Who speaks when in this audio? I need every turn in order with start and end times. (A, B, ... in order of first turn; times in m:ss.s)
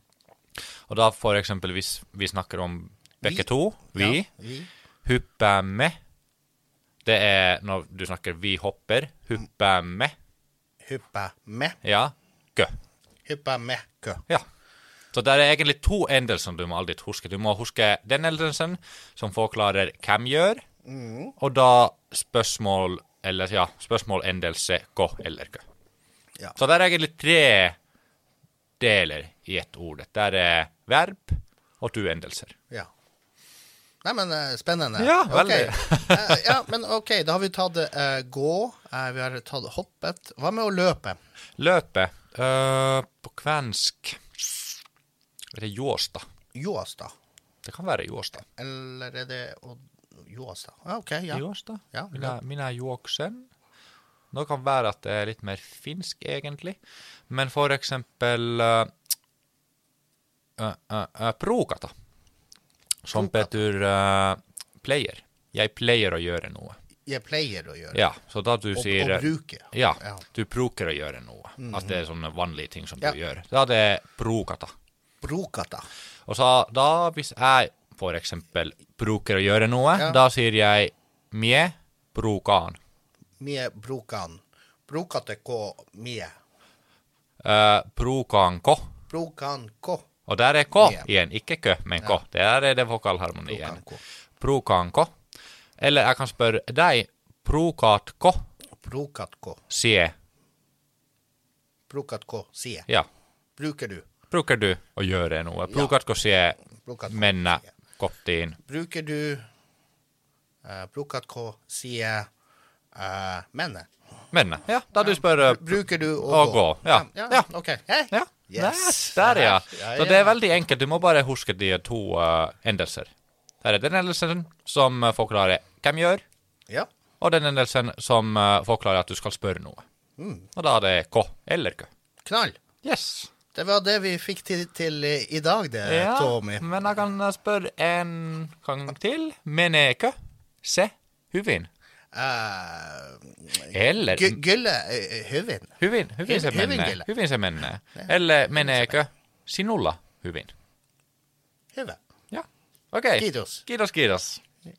0:00.9-0:04.3 A
0:03.2-0:04.7 B
0:05.0-0:06.0 A
0:07.0-0:10.1 A
0:10.8-0:11.8 B
0:11.8-0:12.7 A
0:13.2-0:14.2 B
0:15.1-0:20.6 A
0:20.8-0:21.3 B
0:21.4-0:25.6 A
0:26.6-0:27.8 A
0:28.8-0:32.5 A
0:34.0-0:41.2 B
0:35.0-0:36.4 A
0:41.6-0:44.2 A
0:45.5-0:46.2 A
0:46.5-0:47.1 B
0:47.6-0:48.4 A
0:48.5-0:52.4 B
0:51.3-0:53.5 A
0:54.3-0:56.8 A
0:57.3-0:58.9 A
1:00.6-1:01.9 A
1:03.0-1:06.8 A
1:03.1-1:03.6 B
1:07.0-1:08.0 B
1:07.9-1:14.7 A
1:08.7-1:10.2 B
1:11.6-1:12.0 B
1:15.2-1:15.8 B
1:16.3-1:22.8 A
1:23.4-1:26.3 B
1:27.4-1:28.9 A
1:29.1-1:30.1 B
1:30.3-1:33.8 A
1:30.8-1:31.1 B
1:33.4-1:34.0 B
1:34.4-1:35.1 A
1:35.8-1:38.4 A
1:38.8-1:39.6 B
1:39.7-1:40.1 A
1:41.9-1:42.9 B
1:43.6-1:44.0 B
1:44.3-1:48.6 A
1:46.7-1:47.7 B
1:48.6-1:49.4 B
1:50.6-1:52.3 B
1:52.9-1:53.9 B
1:54.3-1:57.5 A
1:54.9-2:00.4 B
1:58.1-2:03.1 A
2:03.6-2:06.2 A
2:07.2-2:09.8 A
2:10.2-2:10.5 B
2:10.5-2:11.9 A
2:12.2-2:12.6 B
2:12.8-2:13.3 A
2:13.5-2:16.7 B
2:15.8-2:21.7 A
2:22.1-2:27.1 B
2:23.7-2:24.4 A
2:25.8-2:30.5 A
2:27.9-2:29.0 B
2:32.3-2:34.4 A
2:33.2-2:33.6 B